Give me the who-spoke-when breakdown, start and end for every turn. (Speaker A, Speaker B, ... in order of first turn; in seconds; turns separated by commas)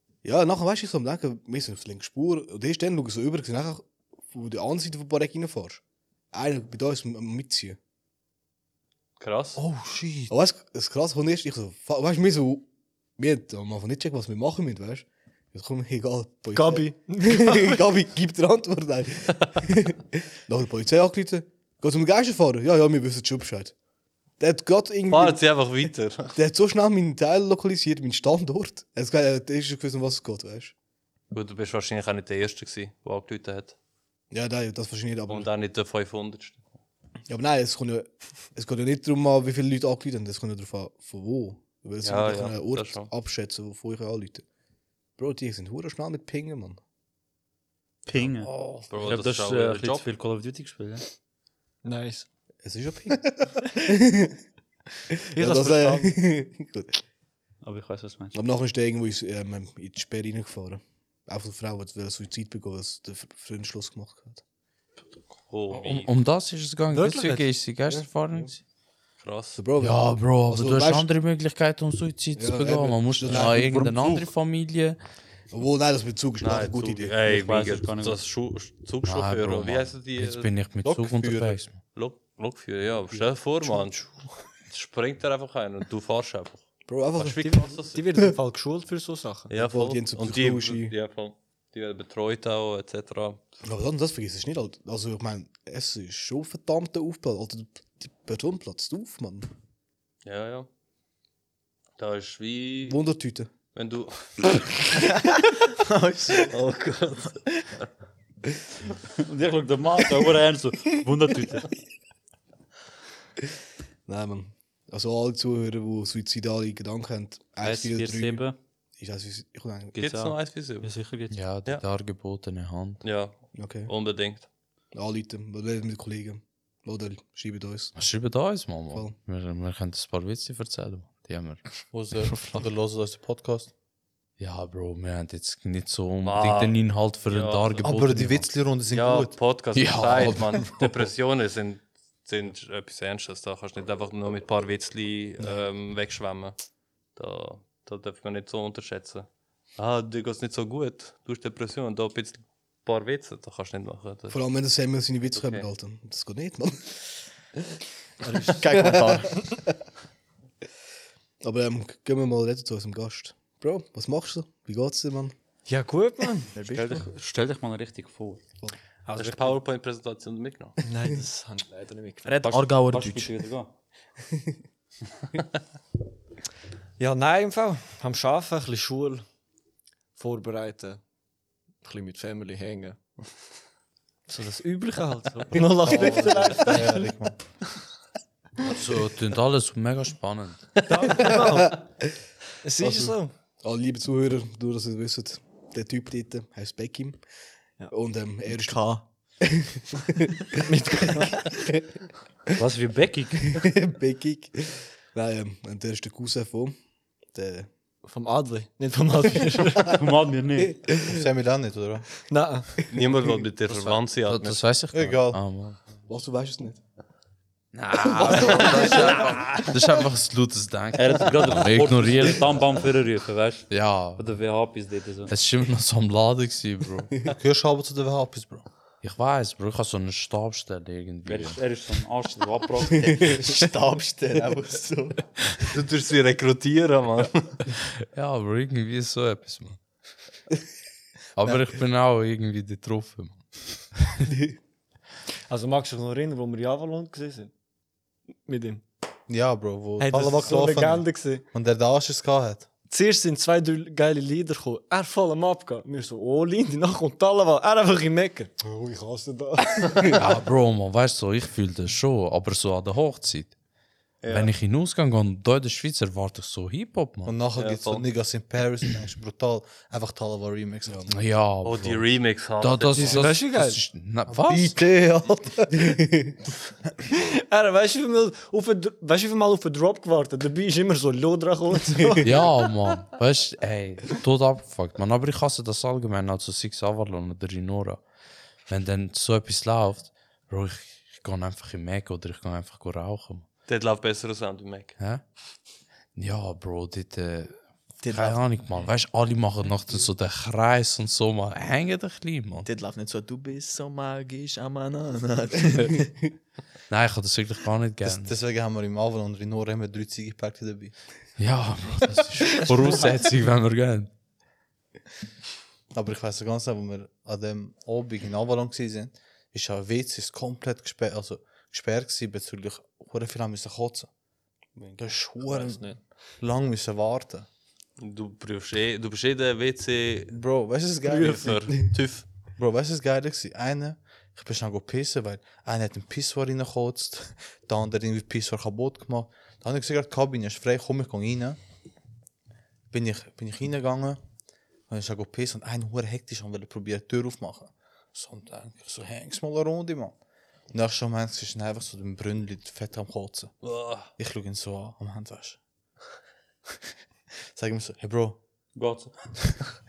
Speaker A: 0.2-5.8, Speaker A: 6.3-7.8, Speaker B: 9.2-9.6, Speaker C: 9.6-10.3, Speaker A: 10.3-23.7, Speaker D: 16.5-17.8, Speaker A: 24.4-25.4, Speaker B: 25.1-26.3, Speaker A: 26.3-30.7, Speaker B: 31.3-33.8, Speaker A: 34.3-35.5, Speaker B: 35.3-36.6, Speaker A: 37.3-44.4, Speaker B: 42.0-43.1, Speaker A: 45.2-46.8, Speaker E: 48.1-51.0, Speaker F: 48.4-48.9, Speaker B: 48.9-50.0, Speaker D: 51.8-52.3, Speaker A: 52.6-54.4, Speaker A: 55.1-57.0, Speaker D: 55.3-56.1, Speaker E: 57.6-58.4, Speaker A: 58.3-64.4, Speaker B: 65.5-66.1, Speaker F: 65.7-68.6, Speaker D: 66.9-67.5, Speaker A: 67.9-68.5, Speaker B: 69.2-69.6, Speaker A: 69.5-71.1, Speaker F: 69.8-75.0, Speaker A: 72.3-74.3, Speaker C: 73.2-73.6, Speaker A: 75.5-77.1, Speaker B: 76.4-80.5, Speaker E: 77.2-78.2, Speaker F: 79.0-81.8, Speaker C: 80.8-81.6, Speaker B: 81.9-84.1, Speaker A: 83.1-83.9, Speaker B: 84.7-86.6, Speaker A: 86.9-87.7, Speaker B: 87.2-88.0, Speaker D: 87.4-89.5, Speaker B: 89.5-93.4, Speaker A: 89.5-90.9, Speaker A: 93.6-99.5, Speaker B: 100.2-100.7, Speaker B: 102.0-103.0, Speaker A: 102.9-103.5, Speaker B: 103.7-104.6, Speaker G: 105.7-106.5, Speaker B: 106.3-107.8, Speaker E: 109.2-111.7, Speaker A: 114.1-118.4, Speaker E: 117.6-118.5, Speaker A: 119.0-120.0, Speaker E: 119.9-121.4, Speaker B: 120.0-120.9, Speaker F: 121.3-123.0, Speaker B: 123.0-124.5, Speaker A: 123.6-123.9, Speaker A: 124.9-127.9, Speaker F: 128.0-131.6, Speaker A: 128.9-129.2, Speaker C: 131.9-133.7, Speaker F: 134.4-138.5, Speaker B: 136.2-137.9, Speaker C: 137.8-139.3, Speaker B: 138.9-146.6, Speaker F: 139.7-141.0, Speaker B: 147.2-154.4, Speaker A: 154.3-157.0, Speaker B: 155.3-155.7, Speaker D: 158.2-158.6, Speaker G: 158.4-159.4, Speaker A: 158.8-159.1, Speaker A: 161.4-165.3, Speaker D: 165.7-166.5, Speaker G: 166.5-167.0, Speaker E: 166.7-168.4, Speaker D: 169.1-169.5, Speaker B: 169.2-170.8, Speaker D: 170.8-172.4, Speaker G: 172.2-173.3, Speaker E: 172.4-173.7, Speaker D: 177.0-179.2, Speaker D: 180.2-181.0, Speaker D: 181.8-183.0, Speaker D: 184.3-187.1, Speaker A: 185.8-186.5, Speaker C: 185.9-187.3, Speaker B: 185.9-186.5, Speaker F: 188.6-190.8, Speaker D: 190.9-191.8, Speaker A: 191.4-191.7, Speaker D: 192.6-193.3, Speaker A: 192.8-197.2, Speaker A: 197.9-200.5, Speaker G: 198.5-199.0, Speaker D: 200.7-201.5, Speaker E: 202.6-203.6, Speaker A: 203.5-206.7, Speaker A: 207.3-207.7, Speaker D: 208.0-210.0, Speaker E: 209.8-210.8, Speaker C: 211.0-212.1, Speaker D: 212.3-212.7, Speaker B: 212.9-214.6, Speaker F: 213.7-215.8, Speaker C: 214.9-215.4, Speaker A: 216.1-216.8, Speaker F: 217.7-222.7, Speaker A: 218.1-219.3, Speaker E: 220.9-225.3, Speaker F: 223.7-224.2, Speaker F: 225.3-227.1, Speaker C: 227.3-228.6, Speaker F: 229.0-231.6, Speaker E: 231.2-233.4, Speaker G: 233.2-235.3, Speaker B: 235.7-237.6, Speaker F: 238.0-239.8, Speaker F: 241.3-243.4, Speaker F: 243.9-244.2, Speaker D: 245.5-247.5, Speaker D: 248.4-248.8, Speaker C: 249.3-252.7, Speaker D: 250.0-251.4, Speaker D: 252.9-260.3, Speaker F: 260.1-263.5, Speaker B: 264.2-264.5, Speaker F: 264.3-267.4, Speaker C: 267.2-271.1, Speaker B: 267.5-268.1, Speaker A: 270.9-271.1, Speaker F: 271.1-274.8, Speaker B: 271.6-273.4, Speaker D: 273.0-273.8, Speaker C: 274.3-276.0, Speaker A: 275.8-276.3, Speaker D: 277.1-282.5, Speaker F: 282.2-288.0, Speaker F: 288.7-293.4, Speaker B: 293.7-295.0, Speaker F: 296.1-297.6, Speaker G: 298.0-298.4, Speaker F: 298.1-302.7, Speaker G: 302.6-306.1, Speaker F: 306.9-308.3, Speaker C: 308.0-310.9, Speaker F: 311.4-314.1, Speaker C: 315.9-324.1, Speaker C: 325.0-325.8, Speaker D: 325.4-326.0, Speaker C: 326.4-327.5, Speaker B: 328.0-330.3, Speaker C: 330.3-331.5, Speaker D: 331.1-331.8, Speaker B: 331.1-332.2, Speaker C: 332.6-341.6, Speaker C: 342.9-344.2, Speaker C: 344.9-350.1, Speaker C: 350.7-353.5, Speaker B: 353.6-354.1, Speaker C: 354.2-355.6, Speaker C: 357.5-358.4, Speaker E: 358.8-359.1